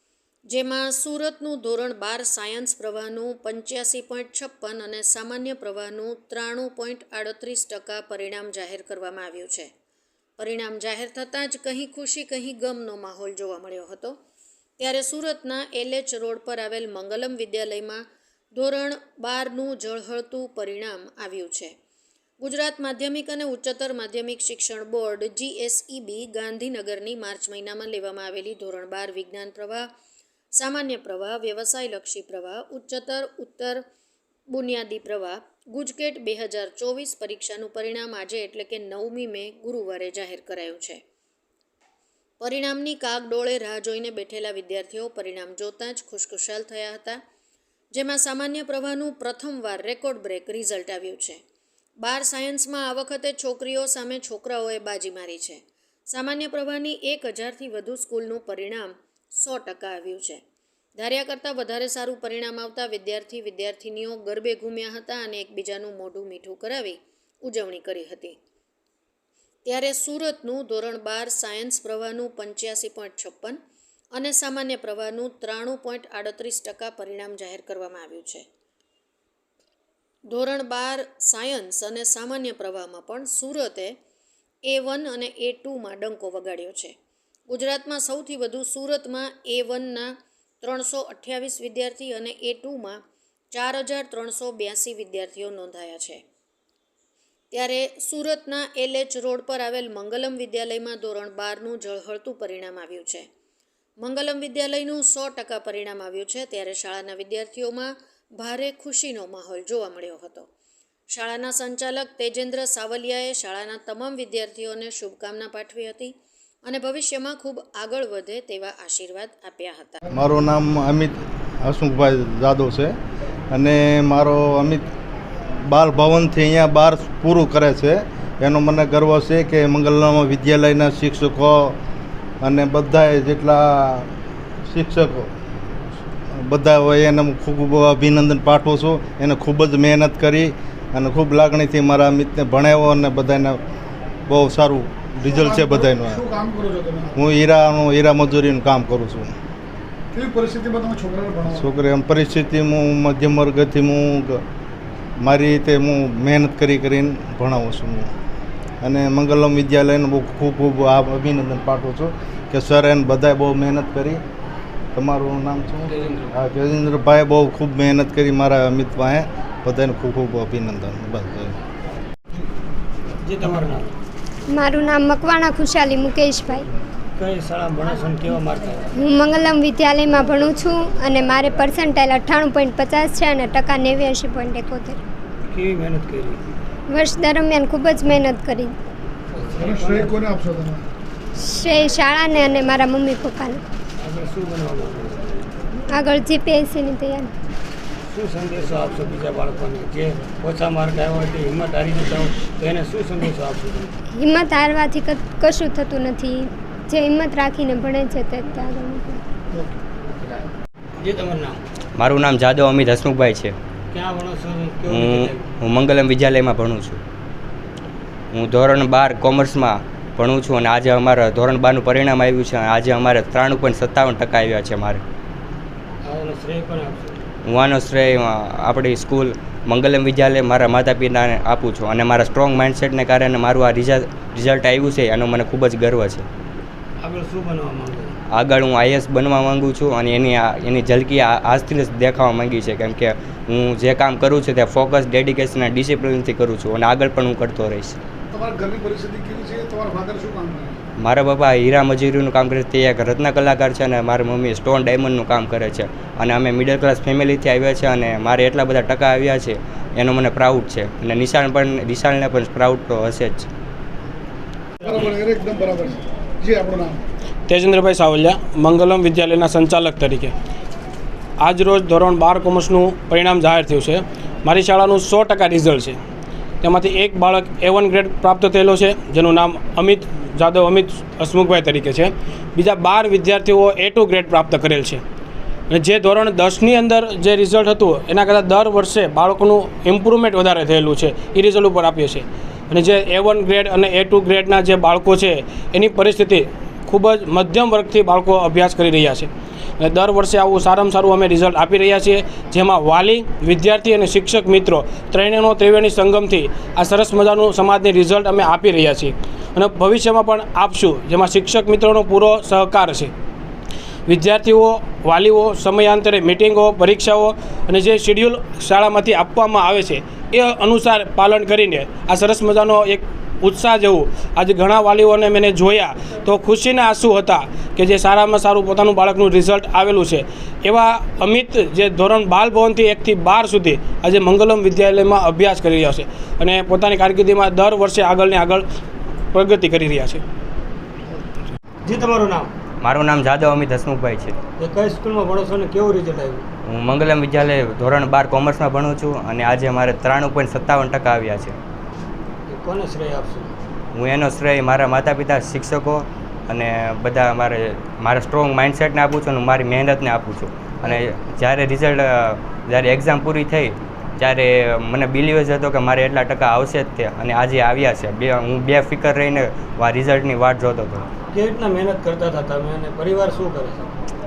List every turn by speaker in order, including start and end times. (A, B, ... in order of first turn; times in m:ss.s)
0:00.5-0:09.7 A
0:10.4-0:14.2 A
0:14.8-0:21.7 A
0:22.4-0:29.9 A
0:30.6-0:33.8 A
0:34.5-0:41.0 A
0:42.4-0:47.2 A
0:47.9-0:51.4 A
0:52.0-1:00.4 A
1:01.0-1:08.4 A
1:09.6-1:13.6 A
1:14.1-1:18.4 A
1:20.3-1:24.0 A
1:24.7-1:26.9 A
1:27.5-1:33.0 A
1:33.5-1:36.2 A
1:37.5-1:43.3 A
1:44.0-1:50.5 A
1:51.1-1:56.1 A
1:56.6-2:00.0 A
2:00.1-2:02.9 B
2:03.5-2:04.9 B
2:05.5-2:11.8 B
2:12.4-2:14.1 B
2:14.7-2:15.3 B
2:16.3-2:23.6 B
2:24.3-2:26.2 B
2:25.3-2:27.1 C
2:27.2-2:29.3 B
2:30.1-2:31.6 C
2:31.5-2:34.4 B
2:35.2-2:38.1 B
2:38.8-2:44.2 B
2:45.0-2:51.5 B
2:53.2-2:53.9 D
2:54.5-2:56.7 E
2:57.2-2:58.9 D
2:59.0-3:05.0 E
3:05.5-3:06.4 D
3:06.9-3:08.8 E
3:09.4-3:10.2 D
3:09.6-3:10.8 C
3:11.4-3:13.6 E
3:14.0-3:15.4 D
3:15.9-3:17.3 E
3:18.1-3:24.0 D
3:24.1-3:29.2 E
3:31.0-3:31.6 D
3:32.0-3:33.5 F
3:33.9-3:35.5 D
3:34.9-3:37.0 F
3:38.3-3:45.0 F
3:46.0-3:47.2 D
3:47.5-3:56.2 F
3:57.0-3:58.2 D
3:58.3-4:08.0 F
4:08.3-4:10.8 C
4:11.0-4:23.5 F
4:24.8-4:27.0 C
4:27.5-4:30.3 G
4:31.4-4:36.0 G
4:36.6-4:45.0 G
4:45.7-4:59.3 G
4:59.8-5:13.1 G
5:14.1-5:38.6 G
5:39.3-5:40.2 G
5:41.8-5:42.5 D
5:42.8-5:44.4 F
5:44.6-5:46.5 D
5:46.7-5:51.6 F
5:52.5-5:53.6 D
5:53.9-6:11.0 F
6:11.3-6:13.9 D